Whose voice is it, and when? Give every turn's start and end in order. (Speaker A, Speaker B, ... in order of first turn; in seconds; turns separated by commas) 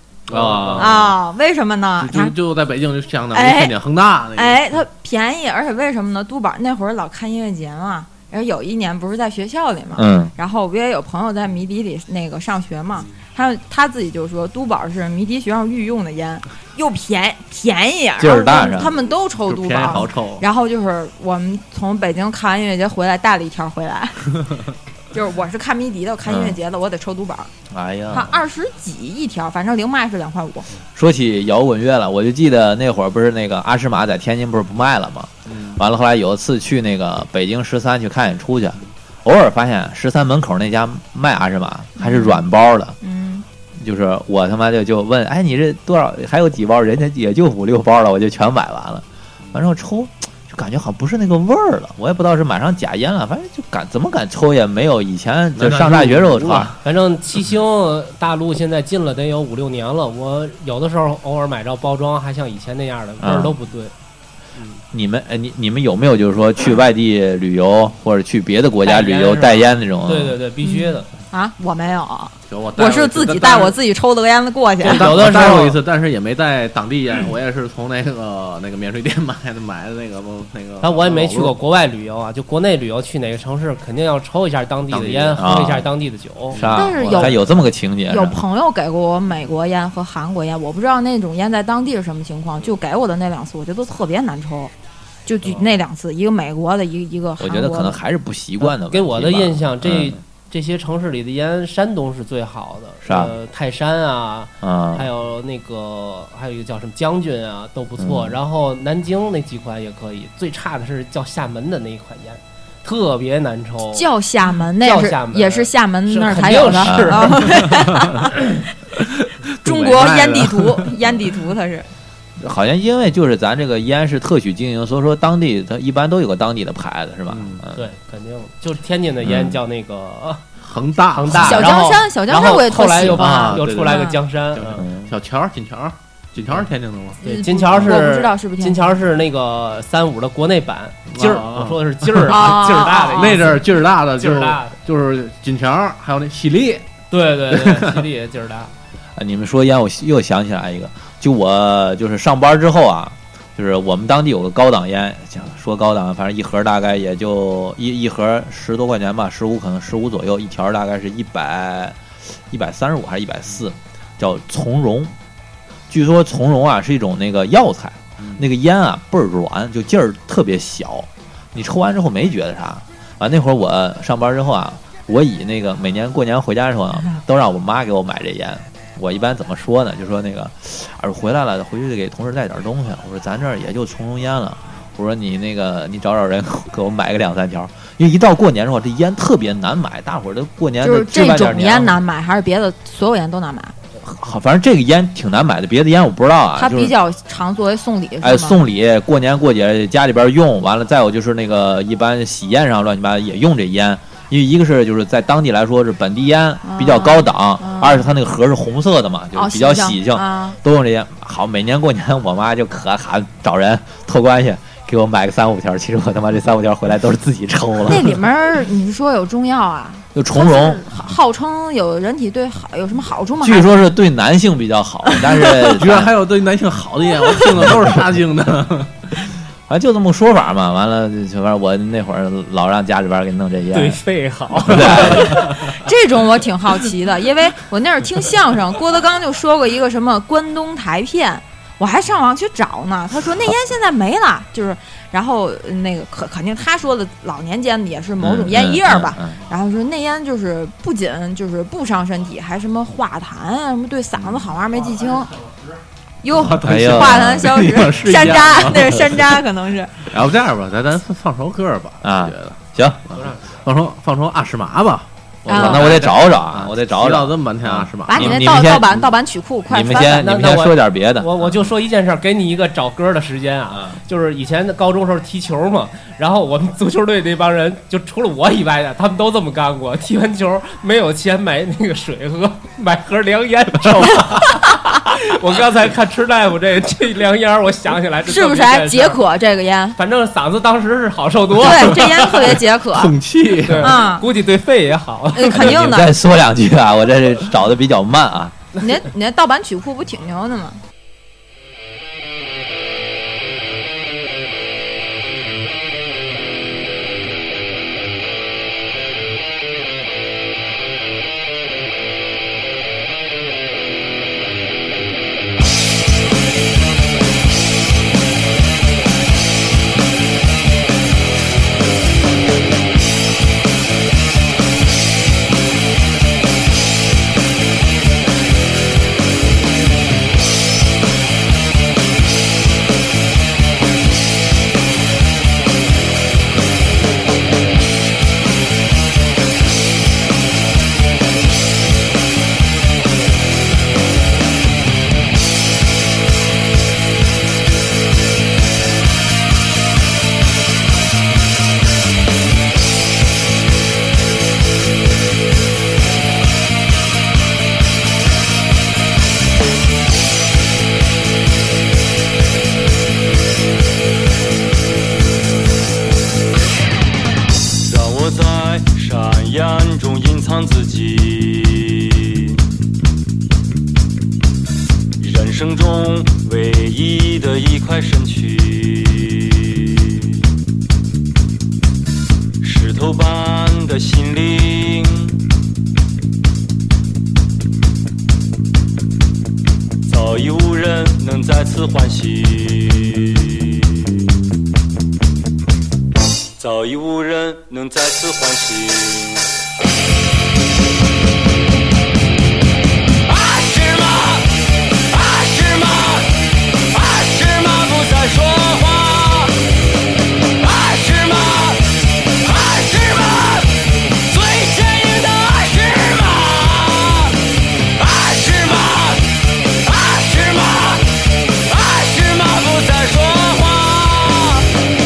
Speaker A: 0.3-1.1, Speaker B: 0.3-1.1, Speaker C: 0.8-2.3, Speaker A: 2.0-4.8, Speaker C: 3.3-3.7, Speaker C: 4.4-24.6, Speaker D: 9.9-10.3, Speaker D: 18.2-18.9, Speaker A: 19.4-20.4, Speaker C: 25.1-27.5, Speaker D: 26.3-26.6, Speaker D: 27.7-28.4, Speaker C: 28.1-30.7, Speaker D: 30.9-43.0, Speaker A: 35.5-35.8, Speaker C: 42.0-42.5, Speaker C: 43.0-43.5, Speaker D: 43.8-56.8, Speaker A: 55.6-56.8, Speaker B: 56.8-63.9, Speaker D: 63.2-63.6, Speaker D: 64.9-70.4, Speaker B: 68.8-71.1, Speaker C: 70.6-75.2, Speaker A: 72.5-73.8, Speaker A: 74.8-81.5, Speaker B: 74.8-75.8, Speaker B: 80.8-86.6, Speaker A: 84.9-85.4, Speaker D: 85.4-85.9, Speaker A: 86.5-87.3, Speaker D: 86.5-88.4, Speaker C: 86.7-94.7, Speaker C: 95.3-98.0, Speaker D: 97.4-100.2, Speaker B: 98.6-114.1, Speaker D: 103.0-103.3, Speaker D: 104.6-105.1, Speaker D: 108.0-108.4, Speaker C: 114.0-118.6, Speaker B: 114.8-117.8, Speaker D: 116.8-117.5, Speaker A: 119.3-120.9, Speaker C: 119.6-121.9, Speaker D: 122.4-127.8, Speaker A: 127.3-127.6, Speaker B: 127.7-130.4, Speaker D: 129.2-129.6, Speaker A: 130.6-131.8, Speaker B: 131.1-134.9, Speaker C: 131.3-134.2, Speaker A: 133.0-137.2, Speaker D: 134.8-135.1, Speaker C: 137.2-139.0, Speaker B: 137.2-143.6, Speaker A: 141.1-146.9, Speaker C: 142.3-143.5, Speaker B: 144.2-144.8, Speaker B: 147.1-148.7, Speaker A: 147.5-148.0, Speaker D: 149.2-165.1, Speaker D: 165.9-192.0, Speaker C: 190.8-193.8, Speaker D: 194.0-196.9, Speaker C: 196.6-198.6, Speaker D: 198.2-218.2, Speaker C: 206.6-208.1, Speaker C: 209.3-210.6, Speaker C: 217.9-223.7, Speaker D: 220.1-221.1, Speaker D: 223.4-226.1, Speaker C: 225.1-225.8, Speaker A: 225.8-229.2, Speaker D: 227.6-228.0, Speaker D: 229.7-234.0, Speaker B: 233.7-235.6, Speaker D: 234.6-235.5, Speaker C: 235.4-255.4, Speaker D: 248.2-249.4, Speaker C: 256.2-260.1, Speaker A: 256.4-259.4, Speaker D: 256.4-257.7, Speaker A: 260.1-268.8, Speaker D: 262.0-263.0, Speaker B: 263.2-263.6, Speaker D: 265.4-269.1, Speaker C: 265.5-265.9, Speaker C: 268.1-270.3, Speaker D: 269.7-271.6, Speaker B: 270.2-289.2, Speaker C: 288.3-290.0, Speaker B: 290.0-292.6, Speaker C: 291.5-293.2, Speaker A: 292.0-294.1, Speaker B: 293.6-295.9, Speaker C: 293.8-294.3, Speaker C: 295.3-296.2, Speaker D: 295.5-298.6, Speaker C: 298.8-300.8, Speaker E: 367.8-372.6, Speaker E: 375.2-380.4, Speaker E: 382.6-385.4, Speaker E: 390.1-394.1, Speaker E: 396.6-399.5, Speaker E: 403.3-409.6, Speaker E: 410.6-417.4, Speaker E: 418.0-424.7